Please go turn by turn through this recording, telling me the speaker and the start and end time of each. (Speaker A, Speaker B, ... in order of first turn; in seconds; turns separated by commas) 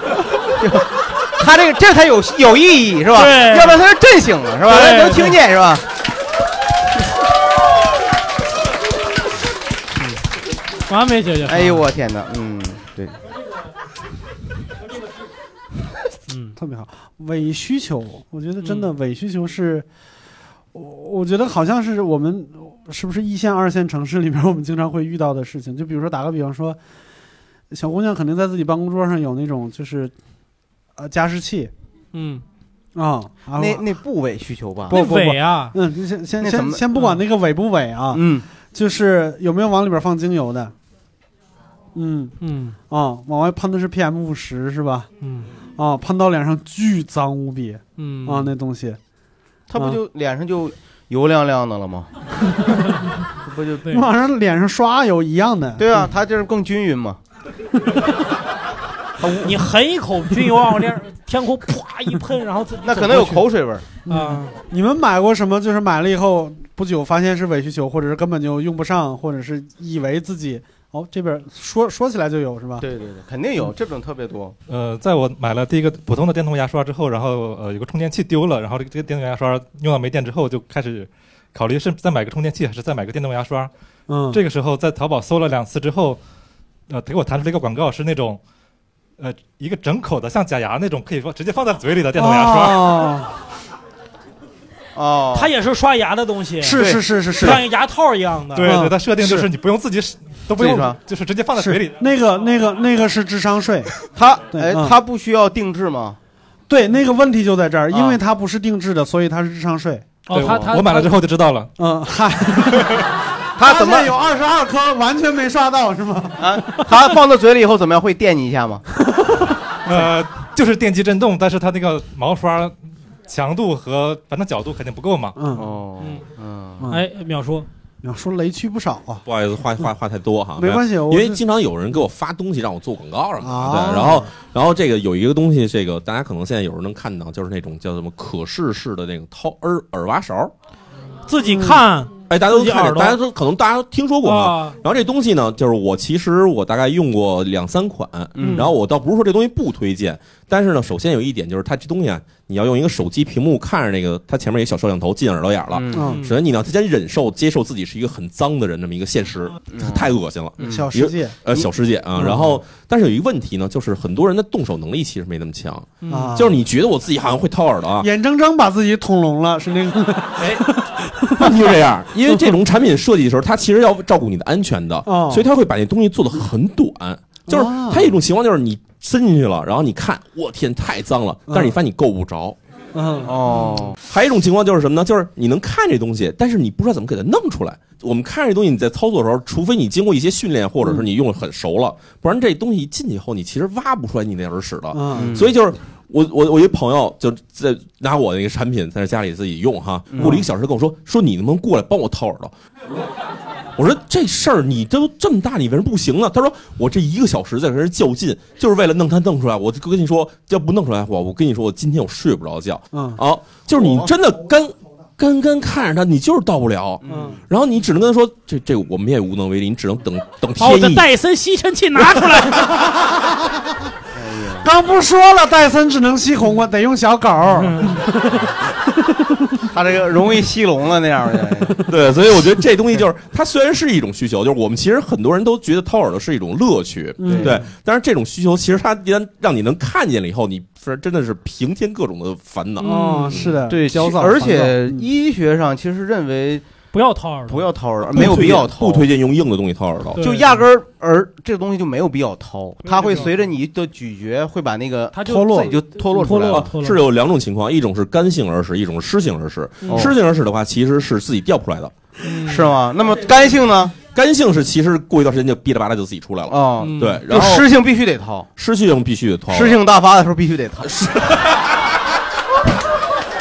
Speaker A: 0.6-5.8, Speaker B: 3.1-3.8, Speaker B: 4.7-5.3, Speaker B: 10.9-11.8, Speaker A: 11.5-13.2, Speaker B: 16.3-16.6, Speaker C: 16.6-19.9, Speaker B: 18.6-18.9, Speaker C: 20.7-26.8, Speaker C: 27.7-30.1, Speaker C: 31.0-31.7, Speaker B: 32.1-32.4, Speaker C: 32.9-33.8, Speaker A: 33.6-35.0, Speaker C: 34.9-40.7, Speaker B: 34.9-35.8, Speaker A: 36.4-36.8, Speaker A: 38.1-38.5, Speaker C: 41.9-42.3, Speaker B: 42.4-42.8, Speaker C: 42.9-45.1, Speaker B: 45.2-45.5, Speaker C: 45.8-49.0, Speaker B: 48.0-48.5, Speaker A: 49.7-52.1, Speaker A: 53.5-53.8, Speaker C: 53.9-55.9, Speaker A: 55.8-57.2, Speaker A: 59.2-59.5, Speaker B: 59.4-63.5, Speaker A: 62.8-63.8, Speaker C: 64.0-72.8, Speaker B: 64.1-64.5, Speaker A: 72.8-74.5, Speaker D: 74.7-83.7, Speaker C: 84.1-84.4, Speaker D: 84.3-86.2, Speaker D: 86.9-88.4, Speaker D: 89.2-93.1, Speaker C: 92.2-93.3, Speaker A: 95.0-95.5, Speaker B: 95.3-98.8, Speaker C: 96.6-97.6, Speaker A: 96.8-97.6, Speaker D: 98.5-102.0, Speaker C: 98.7-99.4, Speaker A: 100.6-101.0, Speaker C: 101.5-103.9, Speaker A: 104.2-106.2, Speaker C: 104.5-104.9, Speaker C: 106.7-110.1, Speaker A: 107.9-108.2, Speaker B: 110.3-111.1, Speaker D: 110.3-111.7, Speaker A: 110.4-110.7, Speaker C: 111.8-113.0, Speaker A: 113.6-114.1, Speaker C: 113.6-116.5, Speaker A: 116.4-118.8, Speaker D: 119.8-125.4, Speaker C: 125.4-125.7, Speaker A: 125.5-126.9, Speaker B: 126.9-127.7, Speaker C: 128.0-129.2, Speaker E: 129.2-140.5, Speaker C: 130.6-131.4, Speaker C: 133.4-134.3, Speaker B: 141.3-143.2, Speaker C: 141.4-141.8, Speaker E: 142.3-168.1, Speaker B: 144.2-144.8, Speaker A: 148.3-148.7, Speaker B: 148.4-148.7, Speaker A: 155.7-156.1, Speaker C: 155.9-156.2, Speaker B: 156.0-156.3, Speaker A: 159.7-160.9, Speaker C: 160.6-161.4, Speaker B: 166.0-166.4, Speaker C: 166.1-166.6, Speaker C: 168.0-171.5, Speaker E: 171.4-182.6, Speaker C: 175.0-175.4, Speaker C: 177.5-178.1, Speaker C: 181.5-181.7, Speaker C: 182.9-183.3, Speaker A: 183.2-184.0, Speaker E: 184.1-202.5, Speaker C: 194.9-195.4, Speaker A: 195.1-195.5, Speaker A: 200.1-200.4, Speaker E: 203.8-221.1, Speaker C: 212.9-213.2, Speaker A: 217.0-217.3, Speaker C: 217.1-217.4, Speaker B: 220.6-222.8, Speaker C: 222.7-223.2, Speaker A: 224.1-224.7, Speaker C: 224.6-228.1, Speaker B: 227.6-228.1, Speaker A: 229.7-231.8, Speaker E: 231.8-243.4, Speaker C: 237.2-237.6, Speaker A: 237.2-237.6, Speaker B: 242.8-243.5, Speaker C: 242.8-245.0, Speaker A: 243.7-246.6, Speaker B: 246.9-247.7, Speaker A: 247.5-249.1, Speaker E: 248.1-250.2, Speaker B: 250.2-250.5, Speaker A: 250.2-256.7, Speaker B: 252.8-253.3, Speaker B: 255.1-257.0, Speaker C: 255.2-255.7, Speaker E: 256.5-261.9, Speaker A: 259.9-260.1, Speaker B: 262.2-262.7, Speaker A: 262.4-263.9, Speaker E: 264.1-267.7, Speaker A: 266.5-268.5, Speaker B: 266.8-267.2, Speaker E: 268.6-269.8, Speaker A: 269.5-271.0, Speaker E: 270.9-271.2